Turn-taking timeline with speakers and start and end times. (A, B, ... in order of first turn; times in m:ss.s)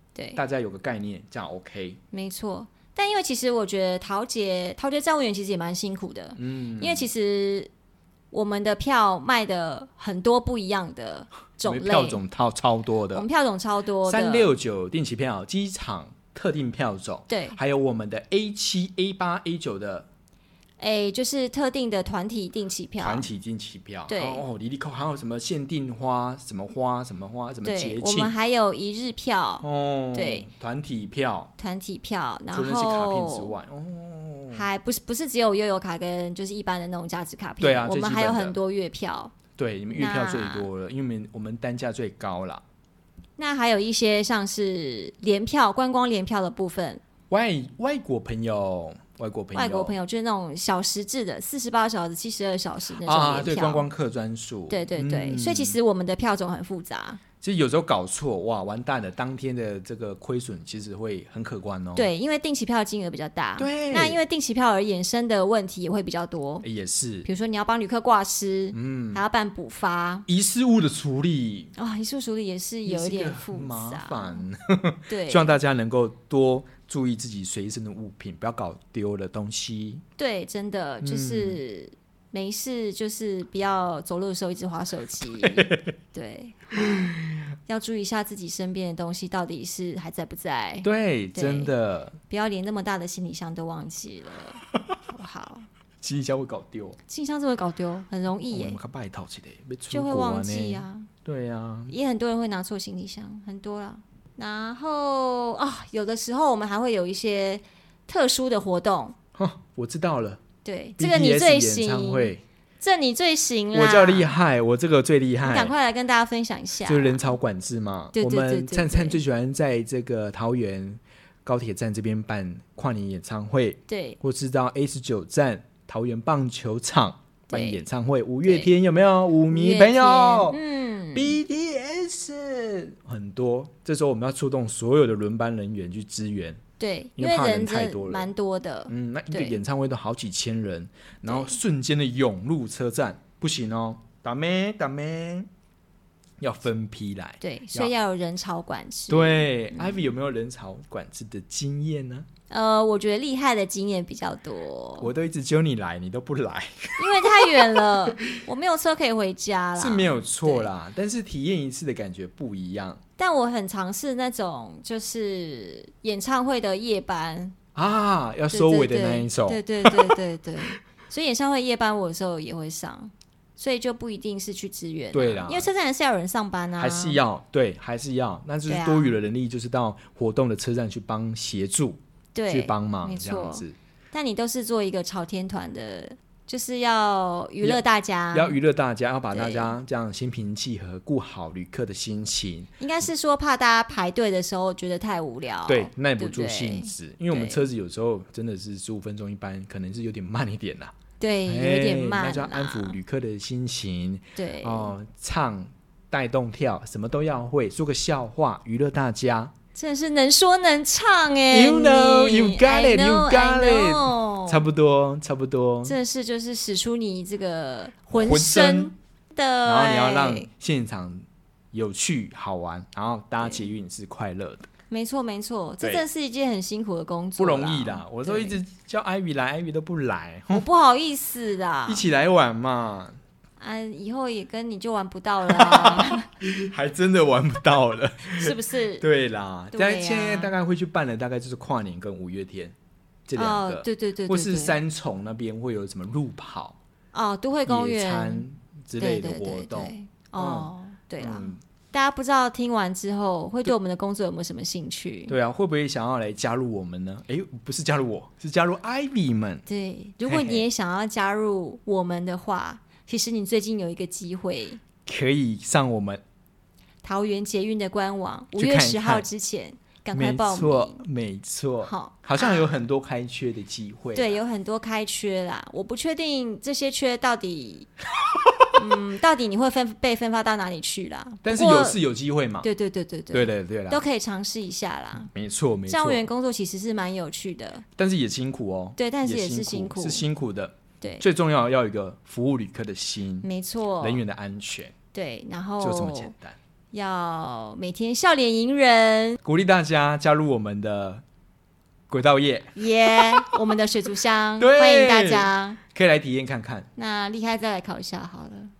0:00.2-0:00.4 A
0:00.4-0:02.0 B
0:02.1-0:07.7 A
0:06.4-0:07.1 B
0:08.3-0:12.2 A
0:11.6-0:13.3 B
0:13.1-0:14.5 A
0:14.0-0:20.1 B
0:17.3-0:17.6 A
0:20.8-0:23.3 A
0:23.0-0:28.3 B
0:24.1-0:24.4 A
0:27.6-0:30.5 A
0:29.6-0:31.5 B
0:31.6-0:33.5 A
0:32.5-0:34.7 B
0:34.5-0:39.4 A
0:37.6-0:38.6 B
0:39.6-0:42.6 B
0:39.9-0:40.7 A
0:43.4-0:47.0 A
0:47.3-0:49.9 B
0:49.5-0:53.9 A
0:53.0-0:55.8 B
0:54.7-0:57.2 A
0:57.4-1:02.1 B
1:02.0-1:06.7 A
1:03.6-1:04.2 B
1:06.6-1:07.3 B
1:07.2-1:10.3 A
1:08.7-1:09.2 B
1:10.3-1:11.8 B
1:11.8-1:14.4 A
1:12.9-1:20.0 B
1:15.1-1:15.6 A
1:20.2-1:27.1 A
1:21.0-1:21.6 B
1:25.4-1:26.0 B
1:26.8-1:27.5 B
1:27.7-1:31.7 A
1:30.8-1:32.2 B
1:32.3-1:35.7 A
1:36.0-1:37.0 B
1:37.1-1:38.8 A
1:38.5-1:41.9 B
1:39.9-1:41.1 A
1:41.9-1:49.2 A
1:49.4-1:50.4 B
1:50.6-1:54.3 A
1:51.0-1:52.4 B
1:53.7-1:55.7 B
1:55.4-1:57.4 A
1:56.9-2:10.6 B
1:58.2-1:59.2 A
2:03.9-2:04.2 A
2:07.5-2:07.8 A
2:08.4-2:08.7 A
2:09.5-2:11.4 A
2:11.1-2:16.6 B
2:16.8-2:19.6 A
2:17.2-2:18.3 B
2:18.9-2:25.5 B
2:21.2-2:21.6 A
2:26.4-2:27.9 B
2:27.4-2:30.1 A
2:29.1-2:32.3 B
2:32.5-2:35.1 A
2:35.0-2:38.2 B
2:37.0-2:40.7 A
2:39.8-2:43.0 B
2:43.2-2:47.6 A
2:47.8-2:50.2 B
2:48.5-2:57.2 A
2:55.1-2:55.7 B
2:56.8-3:03.8 B
2:58.7-2:59.2 A
3:02.4-3:08.6 A
3:07.6-3:12.7 B
3:09.3-3:09.7 A
3:12.8-3:17.6 A
3:15.7-3:20.9 B
3:21.2-3:23.0 A
3:21.5-3:29.5 B
3:24.4-3:25.0 A
3:29.8-3:34.7 A
3:31.5-3:36.0 B
3:35.8-3:40.5 A
3:38.1-3:38.9 B
3:39.6-3:44.7 B
3:43.4-3:43.6 A
3:44.9-3:48.6 A
3:47.4-3:50.7 B
3:50.5-3:52.1 A
3:51.9-3:53.2 B
3:53.6-3:56.3 A
3:55.5-4:02.8 B
3:58.3-3:59.1 A
3:59.7-4:00.5 A
4:03.3-4:06.8 B
4:03.4-4:04.8 A
4:07.1-4:08.5 A
4:07.7-4:11.6 B
4:09.0-4:15.4 A
4:15.3-4:19.6 B
4:19.7-4:24.8 A
4:20.2-4:20.6 B
4:25.1-4:26.2 B
4:27.0-4:31.0 A
4:28.6-4:29.3 B
4:30.1-4:34.4 B
4:31.8-4:32.7 A
4:34.1-4:37.9 A
4:38.7-4:42.0 A
4:41.4-4:42.7 B
4:42.6-4:45.3 A
4:43.3-4:44.0 B
4:45.3-4:46.2 B
4:45.9-4:47.9 A
4:48.0-4:53.5 B
4:49.0-4:50.3 A
4:53.4-4:54.2 A
4:54.0-4:55.0 B
4:55.1-4:56.3 A
4:55.8-4:56.6 B
4:56.9-4:59.4 A
4:59.4-5:01.2 B
5:02.1-5:03.6 B
5:02.8-5:05.8 A
5:04.6-5:06.9 B
5:07.0-5:08.7 A